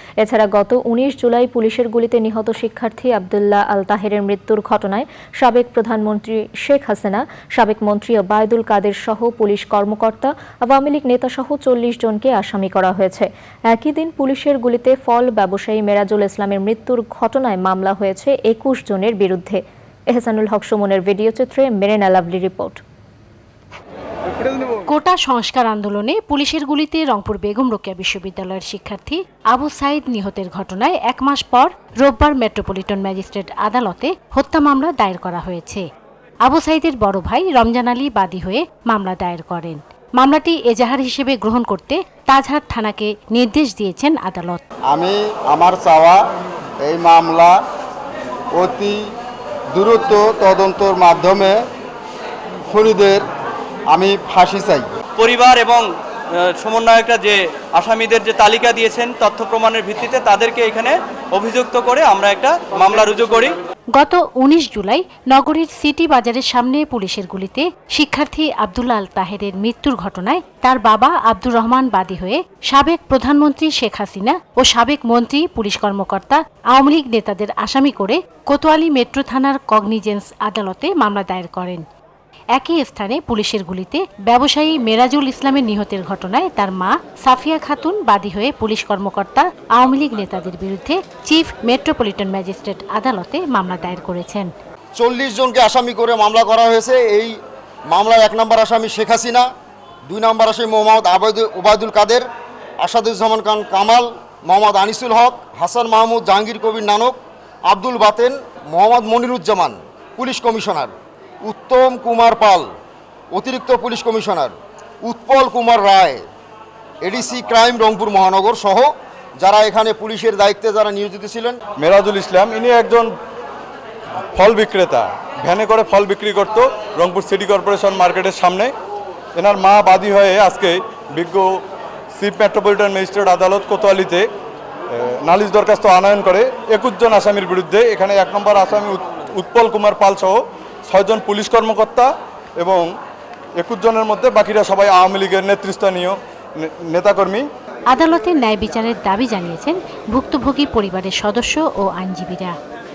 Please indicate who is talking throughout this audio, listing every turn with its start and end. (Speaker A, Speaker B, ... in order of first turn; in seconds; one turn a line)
Speaker A: 0.2-19.6
Speaker A: 20.1-22.8
Speaker B: 24.9-35.8
Speaker B: 36.4-44.6
Speaker C: 44.9-46.2
Speaker C: 46.8-47.5
Speaker C: 48.5-49.0
Speaker C: 49.7-51.6
Speaker C: 52.7-53.2
Speaker C: 53.9-54.9
Speaker D: 55.2-55.8
Speaker D: 56.6-63.5
Speaker E: 62.6-63.0
Speaker B: 63.9-81.8
Speaker B: 82.5-94.5
Speaker C: 95.0-97.3
Speaker C: 97.9-99.5
Speaker C: 100.1-102.2
Speaker C: 102.8-112.7
Speaker C: 113.3-116.2
Speaker C: 117.0-121.6
Speaker E: 121.8-123.1
Speaker E: 124.3-128.7
Speaker E: 129.3-131.5
Speaker E: 132.1-134.3
Speaker E: 134.9-142.8
Speaker E: 143.6-147.4
Speaker B: 147.9-152.5